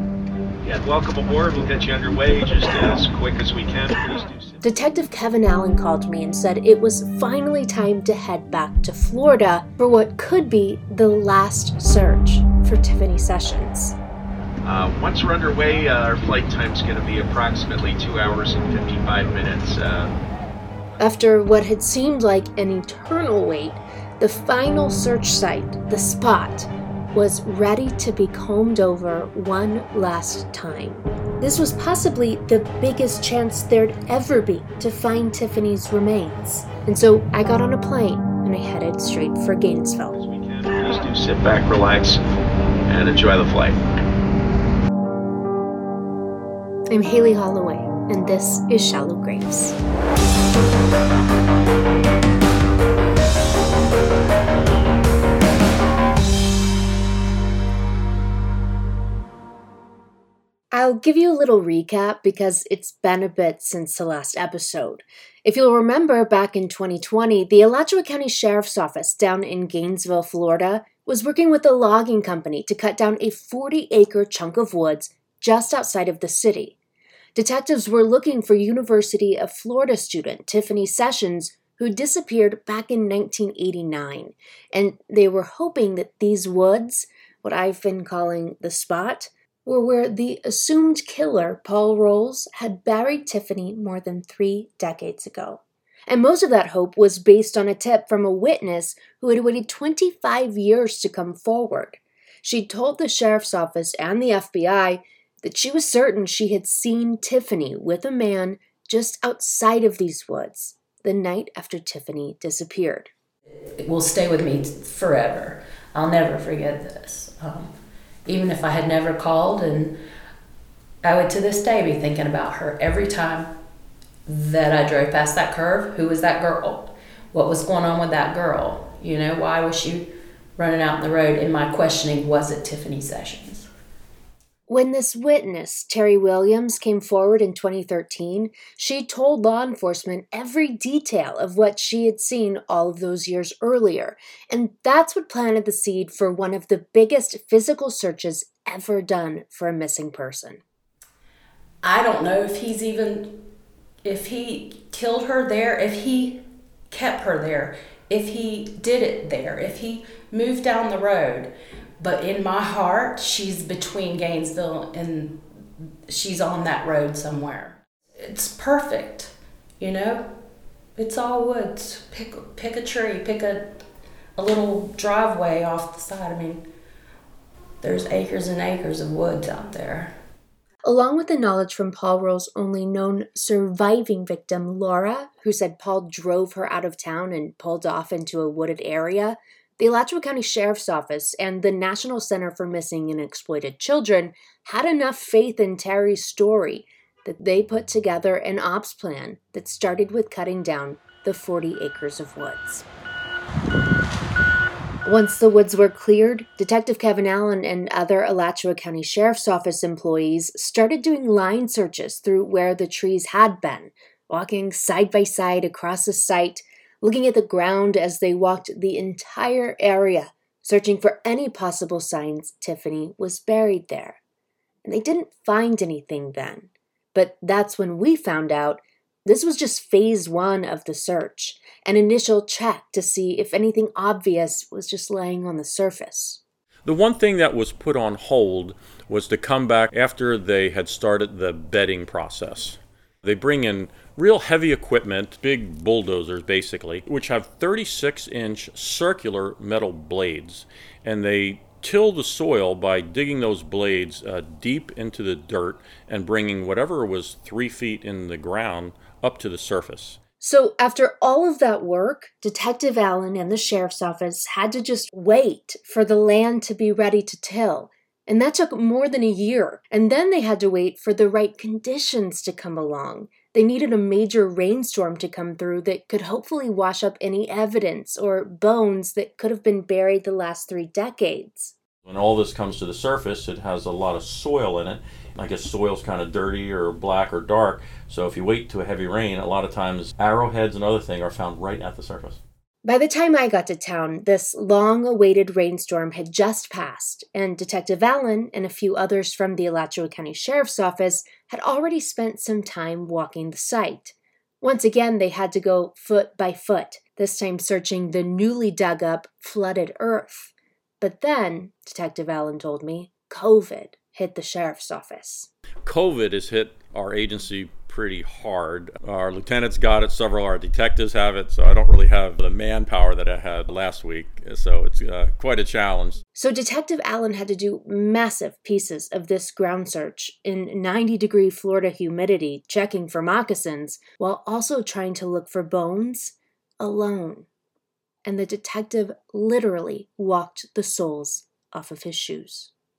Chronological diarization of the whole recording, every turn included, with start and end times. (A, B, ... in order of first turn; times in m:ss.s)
0:00.6-0:04.6 A
0:04.6-0:14.0 B
0:14.6-0:20.2 A
0:21.0-0:40.2 B
0:40.1-0:42.2 A
0:42.9-0:43.8 A
0:46.9-0:49.8 B
1:00.7-1:16.8 B
1:17.4-1:53.1 B
1:53.8-1:57.7 C
1:58.2-2:00.0 C
2:01.0-2:03.5 C
2:04.3-2:13.7 C
2:14.7-2:30.6 B
2:31.8-2:33.4 C
2:34.0-2:45.5 C
2:46.1-2:50.4 C
2:51.0-2:53.8 C
2:54.4-2:56.7 C
2:57.8-3:00.2 C
3:00.8-3:22.8 B
3:25.0-3:44.2 B
3:44.8-3:56.4 B
3:56.8-4:20.2 D
4:20.4-4:41.7 B
4:42.0-4:52.4 D
4:52.8-5:15.5 B
5:15.8-5:26.2 D
5:26.4-5:37.5 B
5:38.2-5:42.7 B